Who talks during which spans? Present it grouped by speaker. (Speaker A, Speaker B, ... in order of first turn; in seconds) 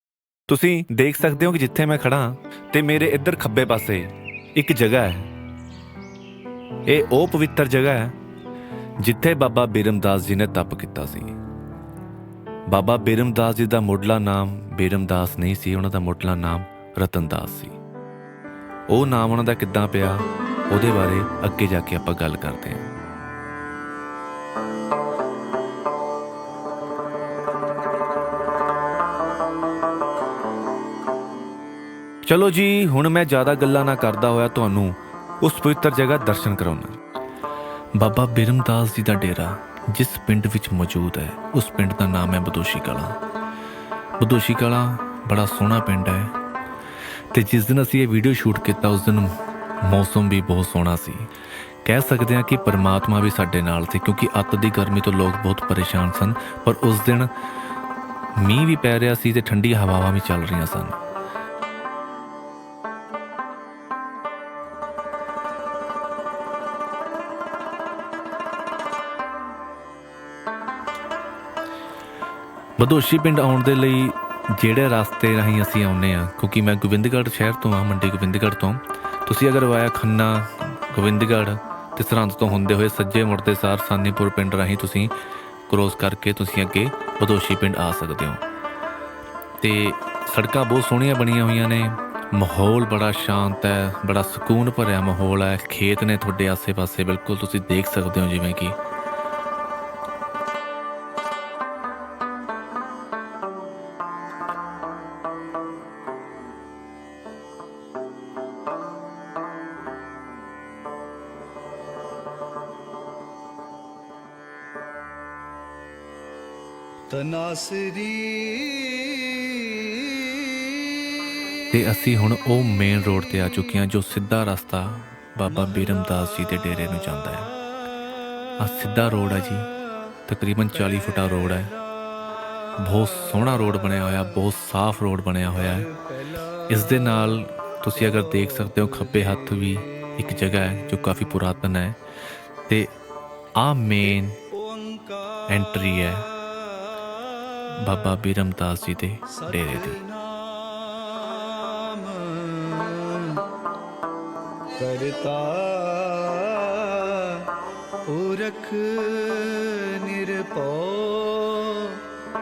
Speaker A: 0.5-5.3, 6.8-8.1, 9.0-11.3, 12.7-17.8, 18.9-22.8, 32.2-37.0, 38.0-43.2, 44.2-46.3, 47.3-51.3, 51.8-57.3, 58.4-61.0, 72.8-85.1, 85.7-88.4, 89.6-98.8, 121.7-127.5, 128.6-129.7, 130.3-131.7, 132.8-135.9, 136.7-142.0, 142.7-142.9, 143.6-144.4, 145.5-146.3, 147.7-150.0
Speaker B: 117.1-120.8, 144.6-145.4, 146.6-147.1, 149.5-153.5, 154.7-157.5, 158.1-162.1